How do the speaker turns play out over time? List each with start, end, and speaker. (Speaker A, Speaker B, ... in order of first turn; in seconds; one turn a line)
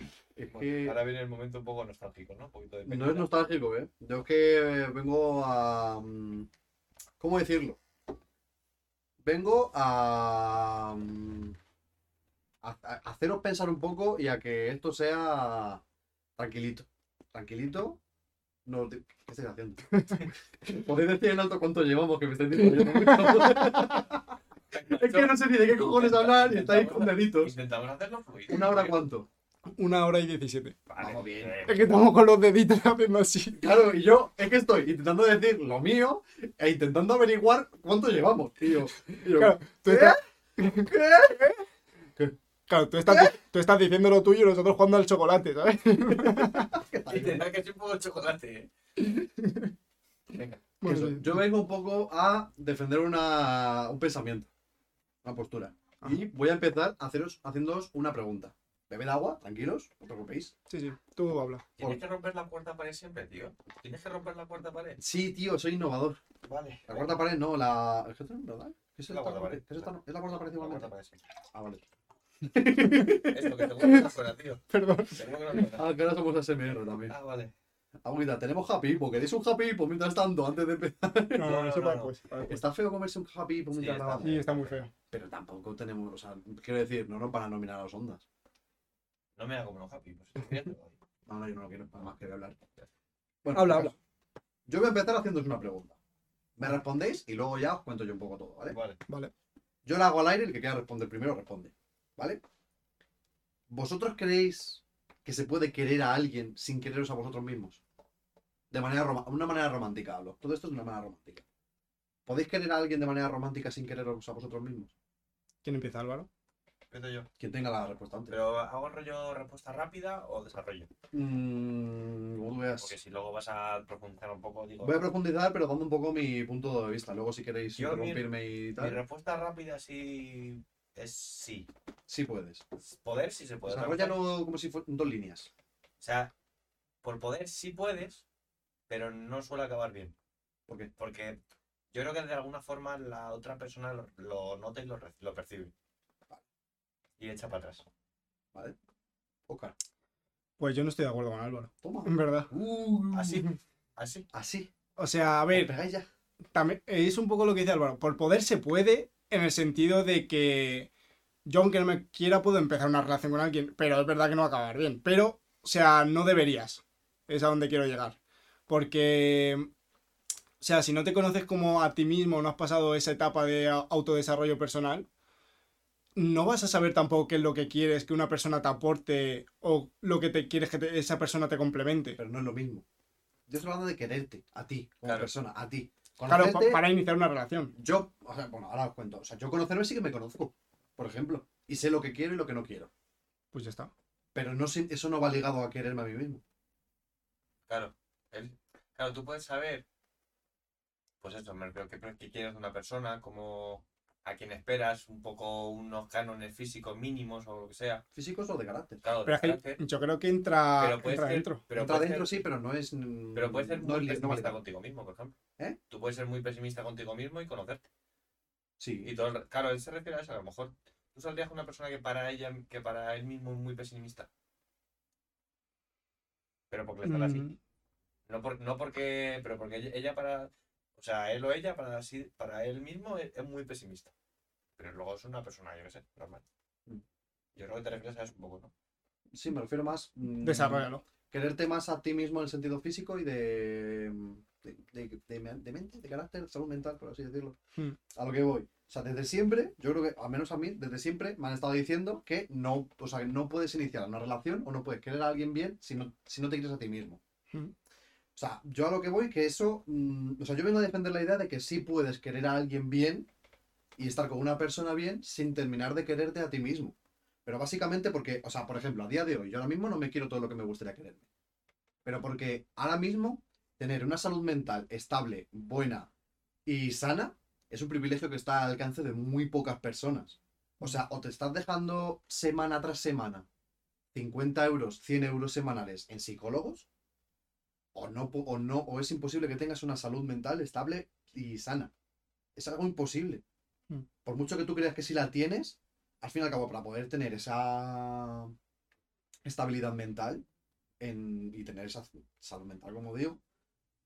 Speaker A: 0.3-1.0
Speaker B: 0.5-3.3
Speaker A: 2.9-6.5
Speaker A: 7.2-7.8
Speaker A: 9.2-11.6
Speaker A: 12.6-15.8
Speaker A: 16.4-18.0
Speaker A: 18.6-20.0
Speaker C: 19.9-20.2
Speaker A: 20.6-24.3
Speaker C: 22.6-24.1
Speaker B: 24.7-28.9
Speaker A: 24.9-27.5
Speaker A: 28.5-29.3
Speaker C: 29.7-30.8
Speaker B: 30.9-31.9
Speaker A: 31.0-31.6
Speaker C: 31.6-33.7
Speaker A: 33.6-41.5
Speaker C: 39.3-41.6
Speaker C: 42.7-46.7
Speaker A: 43.1-43.3
Speaker A: 46.2-47.5
Speaker B: 47.1-48.7
Speaker C: 49.0-49.7
Speaker B: 50.3-50.6
Speaker C: 50.8-51.4
Speaker A: 50.8-54.5
Speaker A: 55.2-60.5
Speaker C: 60.7-61.6
Speaker B: 61.8-65.0
Speaker A: 65.0-66.2
Speaker B: 66.4-67.2
Speaker A: 66.9-70.9
Speaker B: 69.1-71.2
Speaker A: 71.5-71.8
Speaker A: 72.4-73.6
Speaker C: 72.8-74.1
Speaker B: 73.3-75.8
Speaker C: 74.7-75.7
Speaker A: 75.8-77.1
Speaker B: 77.1-77.5
Speaker A: 78.0-81.6
Speaker C: 81.3-82.6
Speaker B: 81.4-82.1
Speaker A: 82.4-84.4
Speaker B: 83.7-84.8
Speaker C: 84.2-84.9
Speaker A: 85.1-88.2
Speaker B: 89.3-91.0
Speaker A: 91.2-92.6
Speaker A: 93.4-93.9
Speaker C: 93.5-93.9
Speaker A: 94.7-96.0
Speaker A: 96.6-98.8
Speaker B: 98.7-99.0
Speaker A: 99.8-102.4
Speaker A: 103.7-107.8
Speaker A: 108.7-111.4
Speaker A: 112.2-114.9
Speaker C: 115.6-116.3
Speaker B: 116.9-117.3
Speaker A: 117.4-118.3
Speaker B: 118.3-120.9
Speaker A: 121.1-122.9
Speaker B: 122.8-125.0
Speaker A: 124.8-129.0
Speaker B: 127.8-131.7
Speaker A: 132.1-132.6
Speaker B: 132.8-134.2
Speaker A: 133.6-135.5
Speaker B: 136.0-136.3
Speaker B: 137.0-138.2
Speaker B: 138.9-140.1
Speaker B: 141.0-141.4
Speaker B: 141.9-145.7
Speaker B: 147.2-147.8
Speaker A: 149.5-149.7
Speaker C: 150.6-152.5
Speaker A: 151.8-153.4
Speaker B: 153.1-154.3
Speaker A: 154.3-154.7
Speaker C: 155.0-155.7
Speaker A: 155.5-156.1
Speaker C: 156.5-160.9
Speaker C: 161.4-169.7
Speaker C: 170.6-175.1
Speaker C: 176.2-182.2
Speaker A: 182.2-182.8
Speaker A: 183.5-186.8
Speaker B: 185.0-185.3
Speaker C: 186.3-187.7
Speaker A: 187.7-192.9
Speaker C: 193.5-193.9
Speaker A: 194.3-196.4
Speaker B: 197.7-199.8
Speaker B: 201.2-208.0
Speaker A: 208.1-209.0
Speaker B: 209.0-209.8
Speaker C: 209.2-211.6
Speaker B: 210.8-212.3
Speaker A: 211.7-214.6
Speaker B: 213.3-215.3
Speaker B: 215.9-217.8
Speaker A: 218.8-219.1
Speaker B: 219.0-224.3
Speaker B: 226.7-227.5
Speaker C: 227.0-227.6
Speaker B: 228.3-234.1
Speaker B: 234.8-236.4
Speaker B: 237.5-238.7
Speaker A: 239.3-247.6
Speaker C: 240.4-241.0
Speaker A: 248.1-257.2
Speaker A: 258.4-263.3
Speaker A: 264.0-266.9
Speaker A: 267.4-271.2
Speaker A: 272.0-276.1
Speaker A: 276.6-283.4
Speaker A: 284.1-286.9
Speaker A: 287.9-291.9
Speaker A: 292.6-293.4
Speaker A: 294.2-298.5
Speaker A: 299.4-300.4
Speaker A: 301.0-303.4